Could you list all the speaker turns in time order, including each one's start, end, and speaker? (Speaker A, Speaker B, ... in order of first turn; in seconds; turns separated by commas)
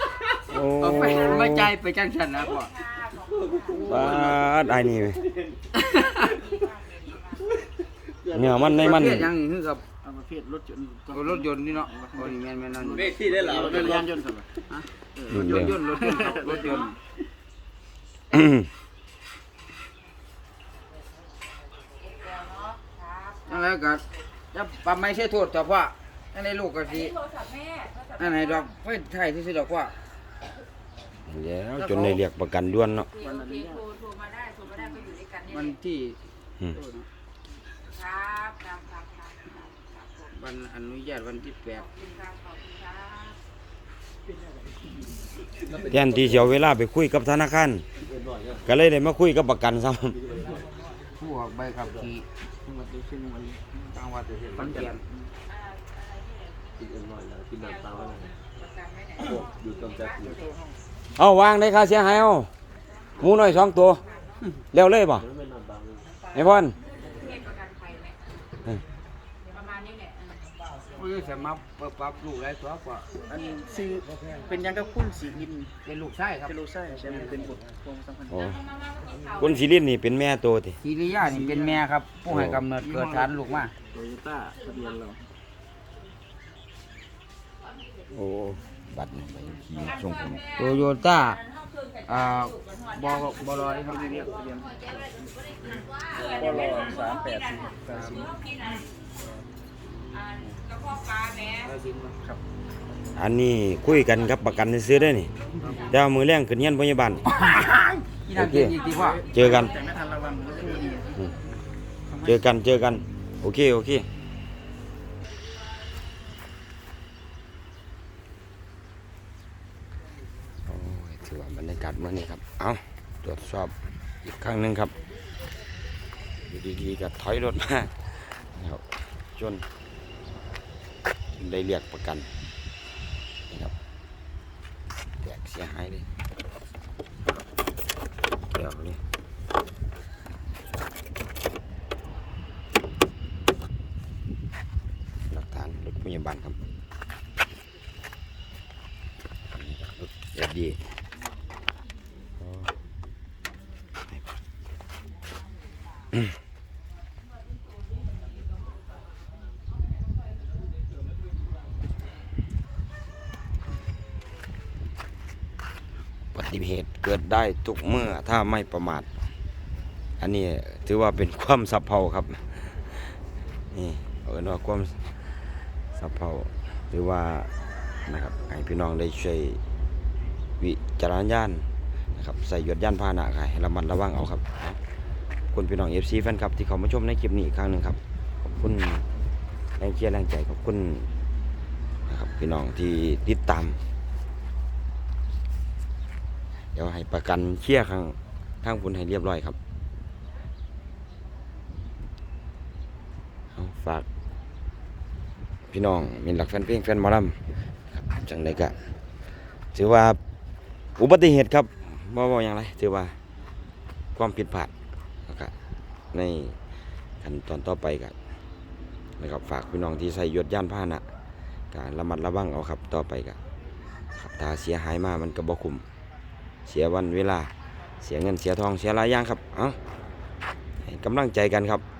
Speaker A: 0.5-1.7, Speaker B: 0.8-2.7, Speaker C: 1.0-1.5, Speaker C: 2.5-3.9, Speaker D: 3.2-5.6, Speaker B: 3.7-4.3, Speaker A: 3.9-5.2, Speaker B: 6.0-6.2, Speaker C: 6.2-7.5, Speaker D: 8.2-9.1, Speaker A: 8.3-9.3, Speaker B: 8.8-9.8, Speaker E: 10.0-12.3, Speaker B: 11.1-13.2, Speaker D: 12.9-14.1, Speaker E: 13.0-14.5, Speaker B: 14.7-16.9, Speaker E: 15.2-16.9, Speaker A: 15.3-15.8, Speaker C: 16.1-16.9, Speaker A: 18.3-18.7, Speaker C: 22.1-23.6, Speaker B: 23.5-24.0, Speaker B: 24.5-27.1, Speaker C: 27.0-28.7, Speaker B: 28.2-29.9, Speaker A: 31.3-33.1, Speaker B: 31.8-32.2, Speaker C: 33.1-35.7, Speaker E: 33.2-33.9, Speaker B: 35.5-36.2, Speaker C: 37.9-39.6, Speaker B: 40.3-41.9, Speaker C: 41.9-43.4, Speaker D: 45.6-46.6, Speaker A: 45.9-47.8, Speaker D: 48.0-48.7, Speaker A: 48.6-50.2, Speaker D: 50.1-50.7, Speaker B: 51.2-52.2, Speaker E: 52.7-53.7, Speaker B: 53.9-55.0, Speaker D: 54.3-54.9, Speaker C: 55.5-56.7, Speaker D: 56.8-58.3, Speaker C: 57.6-60.1, Speaker D: 59.2-60.4, Speaker E: 60.2-60.8, Speaker A: 61.2-62.5, Speaker A: 63.2-64.0, Speaker C: 63.2-64.1, Speaker A: 64.7-65.2, Speaker D: 65.2-66.1, Speaker A: 66.3-66.8, Speaker C: 67.0-68.2, Speaker C: 69.5-70.4, Speaker B: 71.0-73.1, Speaker E: 73.3-75.7, Speaker B: 75.8-76.5, Speaker E: 76.5-78.4, Speaker A: 78.3-78.6, Speaker C: 78.4-79.6, Speaker A: 79.4-80.8, Speaker B: 80.8-83.7, Speaker E: 81.2-81.8, Speaker A: 82.3-82.6, Speaker E: 82.8-83.3, Speaker E: 83.9-85.2, Speaker A: 88.1-90.4, Speaker C: 89.8-98.8, Speaker B: 90.6-91.4, Speaker B: 92.1-94.0, Speaker E: 93.8-95.0, Speaker E: 96.1-98.4, Speaker B: 97.9-98.2, Speaker C: 100.1-101.7, Speaker B: 101.8-102.1, Speaker A: 103.2-105.3, Speaker A: 105.9-107.2, Speaker B: 107.2-109.2, Speaker A: 108.3-108.8, Speaker C: 108.8-111.2, Speaker E: 108.8-111.1, Speaker A: 109.3-109.8, Speaker A: 112.2-114.1, Speaker A: 120.7-124.9, Speaker A: 126.5-129.6, Speaker A: 131.4-132.3, Speaker A: 135.2-136.1, Speaker A: 138.5-139.0, Speaker A: 145.3-146.6, Speaker A: 149.6-150.9, Speaker A: 166.3-169.1, Speaker A: 170.2-173.2, Speaker A: 173.7-175.2, Speaker A: 175.9-177.5, Speaker A: 178.1-179.6, Speaker A: 180.6-184.8, Speaker A: 185.5-189.1, Speaker A: 189.8-191.1, Speaker A: 192.1-193.8, Speaker A: 196.7-199.6, Speaker A: 203.6-204.1, Speaker A: 205.7-207.4, Speaker A: 207.9-208.8, Speaker A: 209.7-210.2, Speaker A: 211.0-213.2, Speaker A: 214.2-214.7, Speaker A: 215.3-215.5, Speaker A: 216.1-216.6, Speaker A: 217.2-218.2, Speaker A: 219.2-221.0, Speaker A: 221.7-223.4, Speaker A: 224.1-225.8, Speaker A: 226.7-229.8, Speaker A: 230.8-231.8